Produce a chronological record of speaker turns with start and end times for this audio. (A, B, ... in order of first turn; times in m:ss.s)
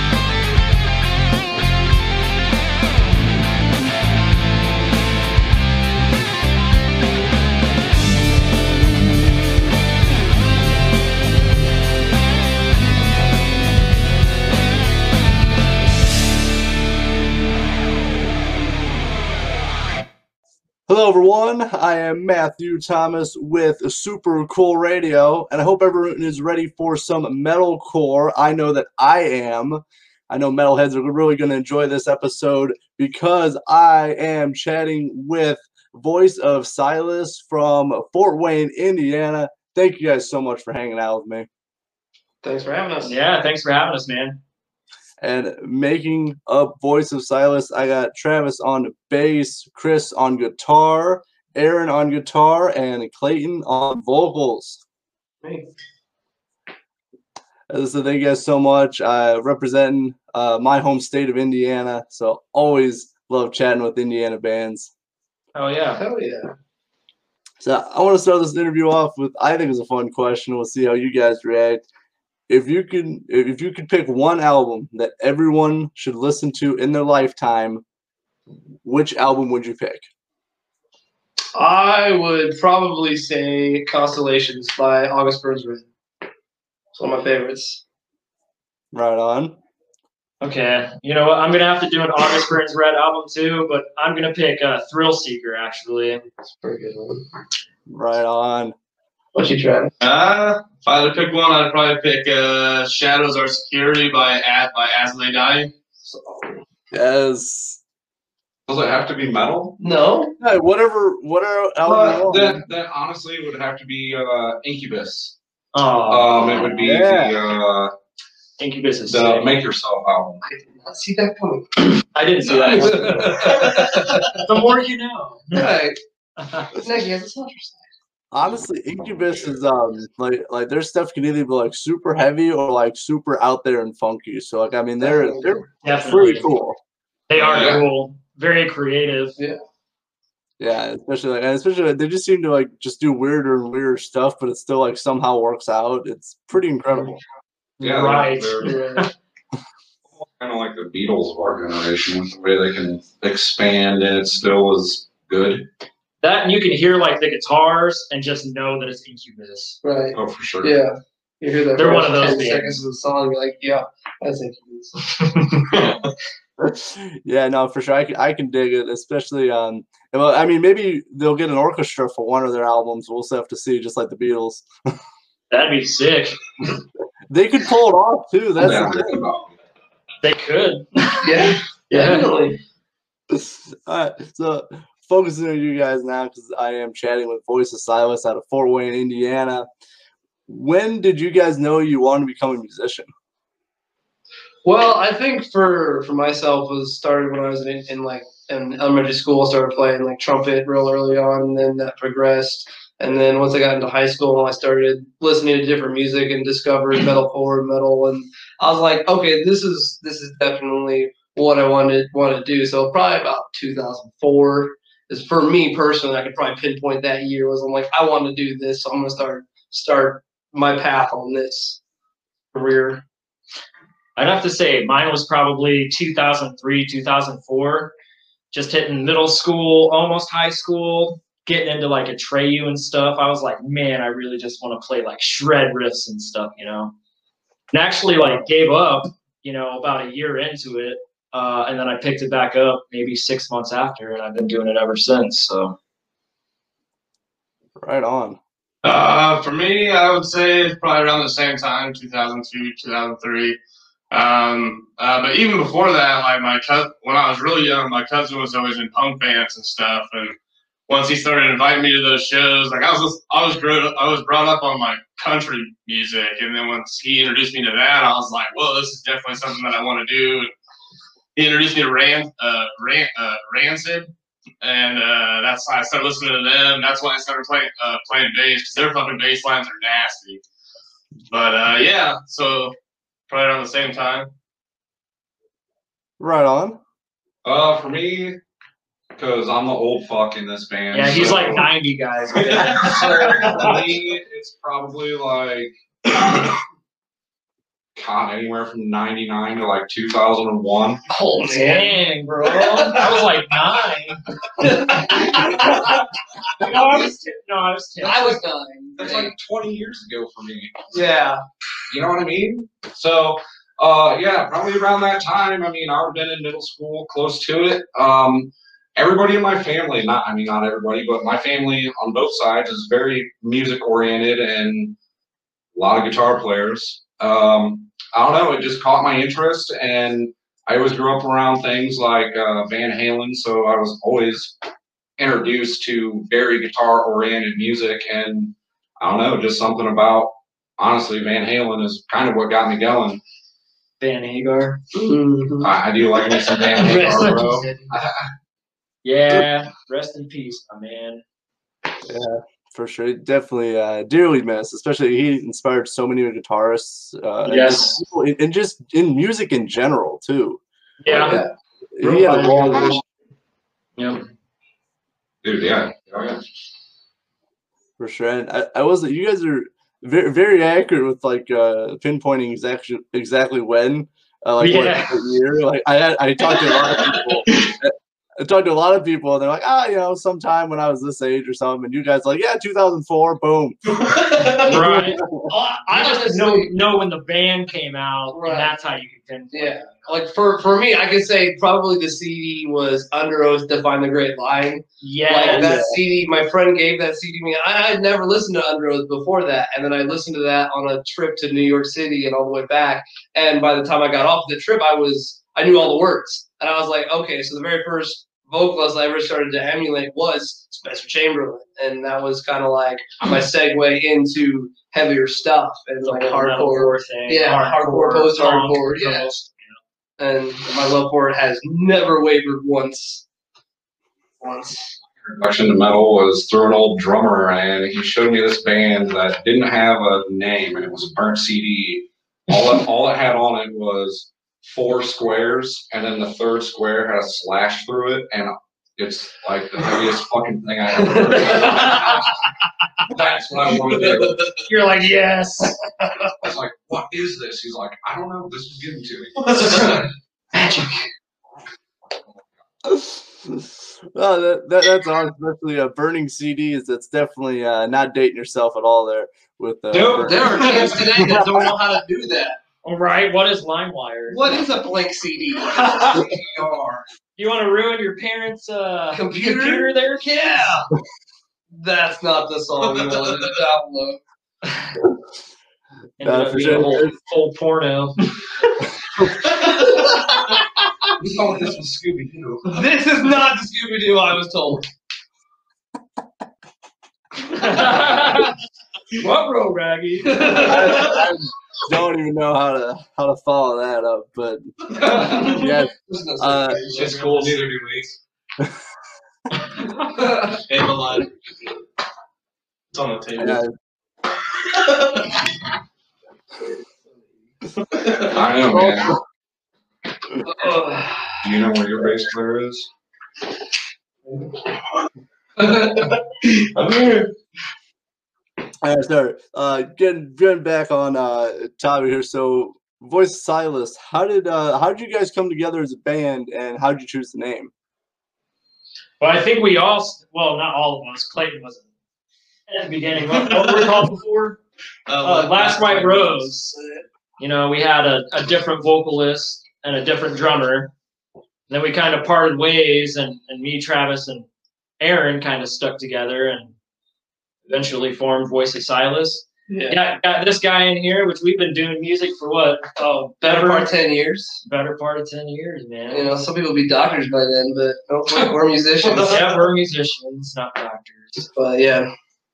0:20.9-0:41.5 A
0:42.4-0:43.1 B
0:43.0-0:44.4 C
0:45.2-0:54.8 A
0:55.4-0:55.7 B
0:57.7-1:04.9 A
1:05.6-1:06.0 C
1:06.0-1:06.5 B
1:07.6-1:11.8 A
1:12.5-1:17.8 A
1:18.8-1:20.0 A
1:21.6-1:25.9 B
1:26.9-1:27.8 B
1:28.9-1:29.6 A
1:30.4-1:36.3 C
1:36.6-1:37.2 B
1:37.9-1:38.8 A
1:39.4-1:39.9 B
1:40.0-1:45.7 D
1:46.1-1:46.5 B
1:46.9-1:47.8 A
1:48.7-1:49.8 E
1:49.8-1:50.3 B
1:50.4-1:52.6 A
1:51.8-1:55.4 E
1:55.7-1:56.7 C
1:56.1-1:57.9 E
1:56.8-1:57.4 A
1:58.6-1:59.6 C
1:59.1-2:00.4 E
2:00.4-2:02.0 B
2:02.1-2:05.7 C
2:02.6-2:04.3 B
2:03.7-2:04.2 D
2:05.5-2:06.0 B
2:06.4-2:06.7 C
2:06.7-2:07.8 B
2:08.3-2:16.8 A
2:15.0-2:15.6 B
2:15.8-2:16.5 C
2:17.3-2:19.4 C
2:17.3-2:17.8 E
2:20.6-2:27.2 A
2:27.8-2:29.1 C
2:27.8-2:28.8 E
2:28.6-2:29.1 B
2:30.1-2:35.6 E
2:36.2-2:39.8 C
2:39.8-2:45.2 B
2:40.1-2:40.8 E
2:41.8-2:42.8 C
2:46.6-2:54.7 A
2:55.5-2:56.4 C
2:57.3-2:59.2 A
2:58.6-2:59.5 E
3:00.2-3:01.3 C
3:01.2-3:02.6 B
3:01.9-3:02.3 C
3:03.3-3:09.7 A
3:10.5-3:13.1 A
3:14.6-3:41.8 B
3:42.5-3:43.0 B
3:44.2-3:47.9 C
3:48.5-3:56.9 C
3:57.7-4:05.8 C
3:58.2-3:58.4 A
4:07.8-4:08.4 A
4:08.8-4:13.6 D
4:14.1-4:30.5 D
4:31.4-4:34.1 D
4:34.6-4:40.4 D
4:41.3-4:42.7 D
4:43.3-4:44.3 D
4:46.2-4:46.8 A
4:47.4-4:48.4 E
4:49.2-4:51.7 E
4:50.9-4:53.8 C
4:52.5-4:53.6 D
4:52.7-4:56.6 E
4:58.0-5:01.0 E
5:01.1-5:03.0 B
5:01.4-5:05.9 C
5:04.6-5:06.0 B
5:06.6-5:08.4 C
5:06.6-5:07.1 B
5:08.0-5:09.3 B
5:09.0-5:10.8 E
5:10.9-5:11.4 B
5:11.9-5:25.0 E
5:25.8-5:34.6 E
5:35.2-5:43.2 E
5:44.0-5:44.8 C
5:44.9-5:45.8 B
5:45.6-5:48.3 E
5:46.4-5:47.8 B
5:46.9-5:47.4 C
5:49.0-5:51.2 C
5:52.1-6:00.6 A
5:57.4-5:58.0 C
6:01.0-6:01.4 C
6:01.1-6:01.5 B
6:01.1-6:01.4 A
6:02.0-6:03.0 A
6:02.0-6:03.0 C
6:04.0-6:04.2 C
6:05.4-6:06.4 E
6:08.0-6:23.8 A
6:14.6-6:15.3 C
6:16.6-6:17.3 D
6:23.9-6:24.8 D
6:24.6-6:25.2 C
6:24.7-6:25.4 A
6:25.5-6:26.7 B
6:25.9-6:30.1 C
6:28.3-6:28.7 B
6:29.5-6:59.4 B
6:35.0-6:35.7 C
6:35.4-6:36.0 A
6:56.0-6:59.7 C
7:00.2-7:03.2 B
7:04.4-7:04.9 B
7:05.2-7:22.4 E
7:21.0-7:22.0 B
7:23.1-7:24.5 E
7:24.1-7:24.6 D
7:24.7-7:25.8 C
7:26.4-7:30.1 E
7:30.6-7:30.9 C
7:32.8-7:41.7 A
7:39.9-7:42.6 B
7:42.8-7:44.6 C
7:44.3-7:46.3 B
7:45.7-7:46.3 C
7:46.3-7:47.0 E
7:47.4-7:50.8 C
7:49.1-7:50.9 B
7:51.7-7:54.2 B
7:56.2-7:58.3 C
7:56.2-7:57.1 A
8:01.2-8:02.8 E
8:02.7-8:04.8 B
8:07.4-8:08.6 C
8:09.2-8:11.1 C
8:10.3-8:11.2 B
8:10.6-8:14.7 A
8:15.0-8:17.5 B
8:15.4-8:16.8 A
8:16.8-8:18.0 D
8:16.9-8:18.0 E
8:20.1-8:20.6 B
8:20.6-8:21.3 D
8:22.9-8:23.6 D
8:23.4-8:23.7 A
8:24.7-8:25.4 D
8:27.9-8:28.3 D
8:28.2-8:29.2 E
8:28.7-8:29.2 A
8:30.4-8:31.4 B
8:31.4-8:32.9 E
8:36.0-8:37.3 D
8:38.8-8:47.7 A
8:49.2-8:51.9 C
8:52.7-8:54.6 C
8:53.3-8:54.0 D
8:55.1-8:56.5 D
8:55.2-8:56.8 C
8:57.4-9:00.9 C
9:01.7-9:04.5 C
9:05.0-9:06.7 C
9:07.7-9:13.9 C
9:09.7-9:10.0 B
9:13.4-9:14.6 B
9:14.6-9:16.3 C
9:16.1-9:19.4 B
9:19.0-9:19.4 D
9:19.1-9:21.5 C
9:21.5-9:22.1 B